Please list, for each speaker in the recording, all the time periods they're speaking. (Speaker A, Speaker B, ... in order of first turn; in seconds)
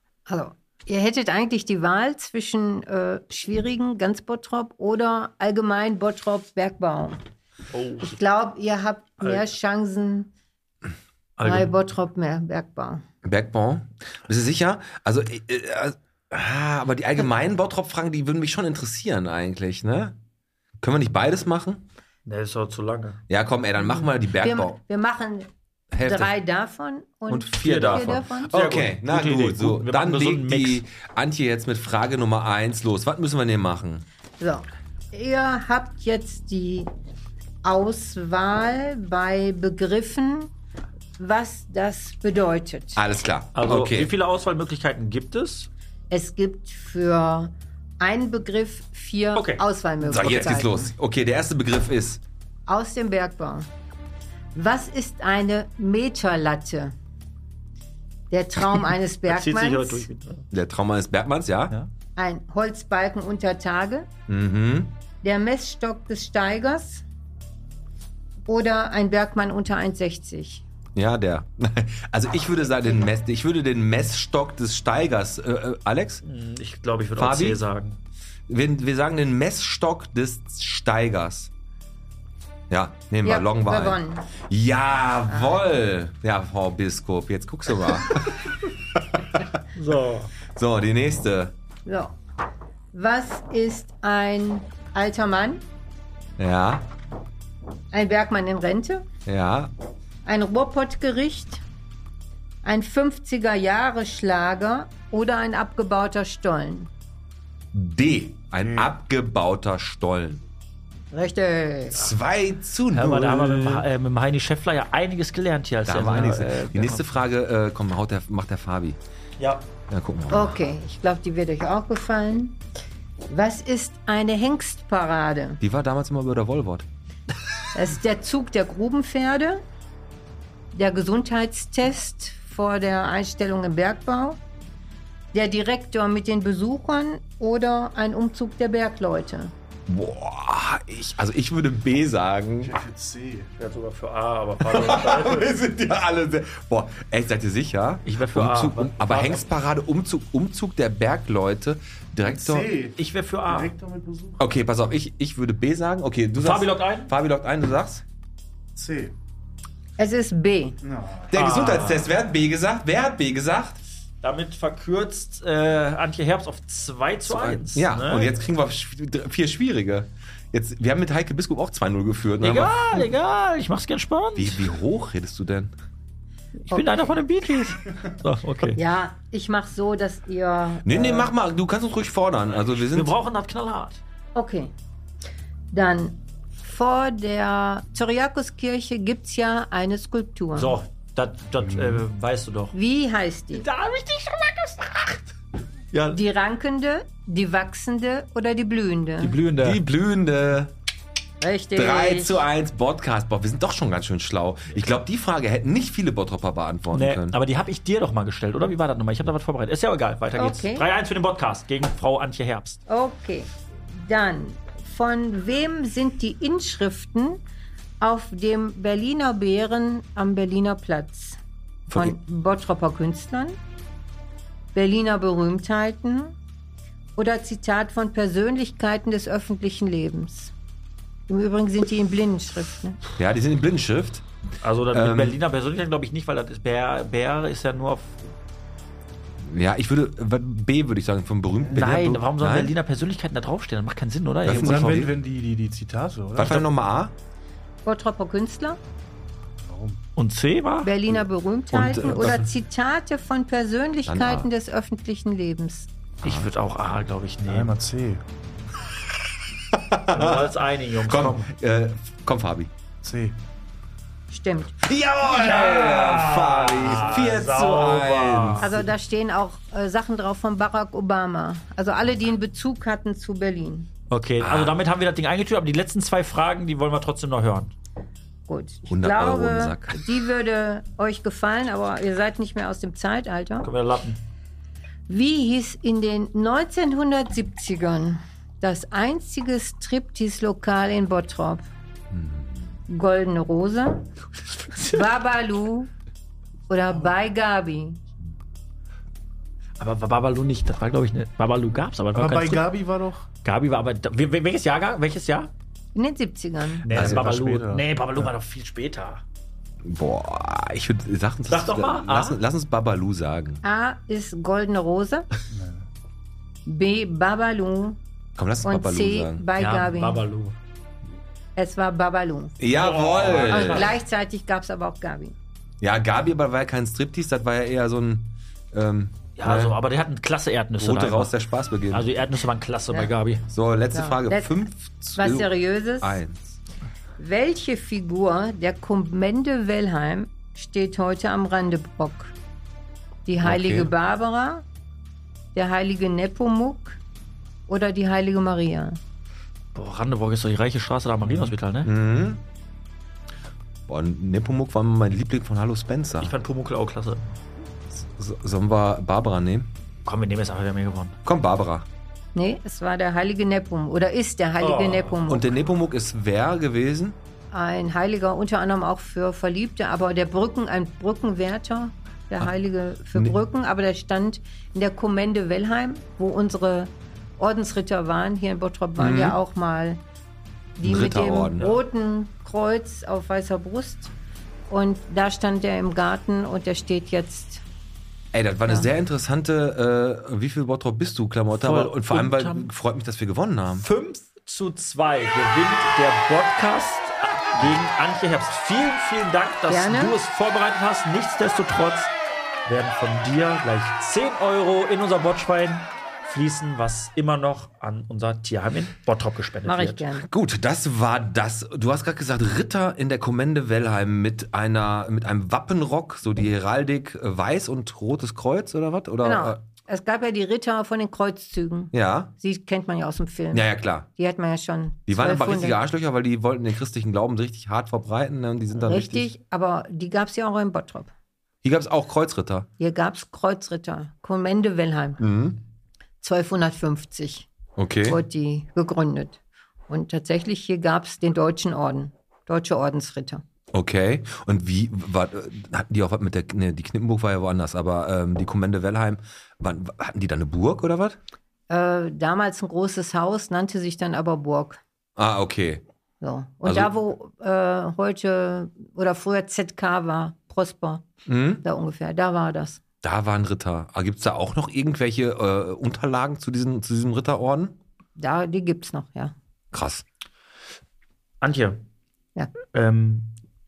Speaker A: 0.3-7.2, 8.0-10.3, 11.4-13.0, 23.8-25.5, 26.0-28.5, 34.4-36.9, 37.6-40.5, 41.2-43.0, 46.1-50.9, 52.7-53.7, 54.5-56.9, 58.3-60.0, 62.1-64.1, 65.2-67.0, 68.5-70.6, 83.2-84.3, 85.3-85.6, 91.8-92.1, 92.9-95.6, 97.9-99.0, 100.2-101.6, 102.6-106.9, 111.1-112.0, 120.3-122.6, 123.3-125.6, 127.7-129.6, 130.7-134.4, 135.3-139.5, 160.0-160.8, 176.7-177.1, 178.8-181.3, 184.3-184.7, 185.7-190.8, 192.7-193.7, 196.1-199.3, 201.4-202.4, 210.3-210.9, 212.9-217.4, 218.0-221.4, 221.9-223.6, 224.7-226.3, 227.2-230.5, 231.3-233.0, 247.8-248.8, 250.8-255.9, 264.3-264.8, 268.6-273.9, 278.5-283.7, 285.1-291.6, 292.9-294.1, 294.8-295.9, 296.7-298.0, 305.9-306.9, 313.6-315.3, 316.6-318.0, 318.6-320.2, 321.6-322.6, 323.4-325.3, 333.9-336.2, 337.2-342.3, 343.2-344.6, 345.5-347.0, 347.7-349.0, 362.3-365.5, 367.5-380.0, 380.8-384.1, 384.7-387.6, 399.7-400.2, 409.6-410.3, 419.2-425.8, 428.8-431.1, 432.8-435.2, 436.2-437.5, 438.0-443.4, 451.7-454.8, 456.2-461.1, 461.6-462.8, 468.2-469.3
Speaker B: 7.7-8.2, 11.4-11.7, 22.2-23.2, 27.6-30.8, 43.5-45.7, 49.3-49.6, 59.3-60.5, 76.2-78.0, 89.7-90.3, 112.9-117.0, 119.4-119.7, 143.6-145.5, 148.0-149.5, 152.9-153.7, 156.3-157.1, 161.3-162.1, 164.2-168.3, 172.4-174.6, 176.7-178.8, 182.6-184.0, 190.5-192.7, 193.5-195.3, 195.9-196.2, 199.2-199.8, 206.9-212.8, 234.6-238.3, 241.7-245.1, 250.2-250.9, 256.2-257.7, 260.1-261.5, 265.2-268.7, 274.1-277.7, 283.6-284.2, 294.7-295.0, 299.8-302.7, 303.4-305.5, 306.8-309.2, 311.5-312.4, 319.6-320.6, 322.7-323.9, 329.4-331.3, 331.9-333.4, 349.7-351.9, 356.2-357.4, 360.0-361.2, 364.6-365.2, 391.5-392.7, 393.7-402.1, 402.6-410.0, 471.4-471.8, 472.7-473.3
Speaker C: 13.2-20.1, 20.8-21.8, 23.3-24.8, 25.9-26.3, 27.3-34.0, 42.9-44.1, 50.0-52.2, 60.5-61.8, 64.3-65.0, 70.9-76.2, 77.2-77.6, 78.5-81.5, 82.7-89.5, 90.5-91.5, 96.4-96.8, 99.2-99.7, 107.7-110.4, 111.9-113.8, 115.9-119.0, 119.9-120.7, 125.6-126.8, 139.9-142.7, 144.6-152.7, 154.4-158.0, 161.3-163.8, 167.3-173.1, 174.3-175.7, 180.8-183.1, 199.6-200.7, 201.8-207.4, 221.9-222.2, 233.2-234.2, 234.9-235.4, 239.4-242.7, 244.4-245.1, 246.3-247.1, 251.7-252.5, 254.1-254.5, 256.2-256.5, 259.7-262.7, 264.8-268.7, 274.4-274.8, 278.9-280.0, 292.1-292.5, 306.9-307.3, 309.8-313.6, 318.4-319.4, 322.6-323.9, 325.8-329.8, 330.8-332.1, 333.5-336.6, 343.4-343.9, 351.3-352.4, 353.9-356.3, 357.9-359.7, 361.2-361.9, 365.3-367.2, 379.0-379.4, 380.8-381.7, 388.3-393.8, 410.3-419.6, 421.9-422.3, 423.5-424.1, 425.1-429.3, 431.6-432.7, 435.2-435.6, 437.8-438.2, 443.7-451.2, 455.2-455.8, 456.6-456.9, 461.2-461.6, 463.0-467.8, 469.7-470.0
Speaker D: 142.6-143.5, 152.2-152.9, 153.5-154.5, 158.7-159.1, 160.8-161.3, 244.5-246.6, 249.6-250.0, 257.4-258.2, 263.0-263.4, 302.1-303.2, 306.9-308.3, 315.5-315.9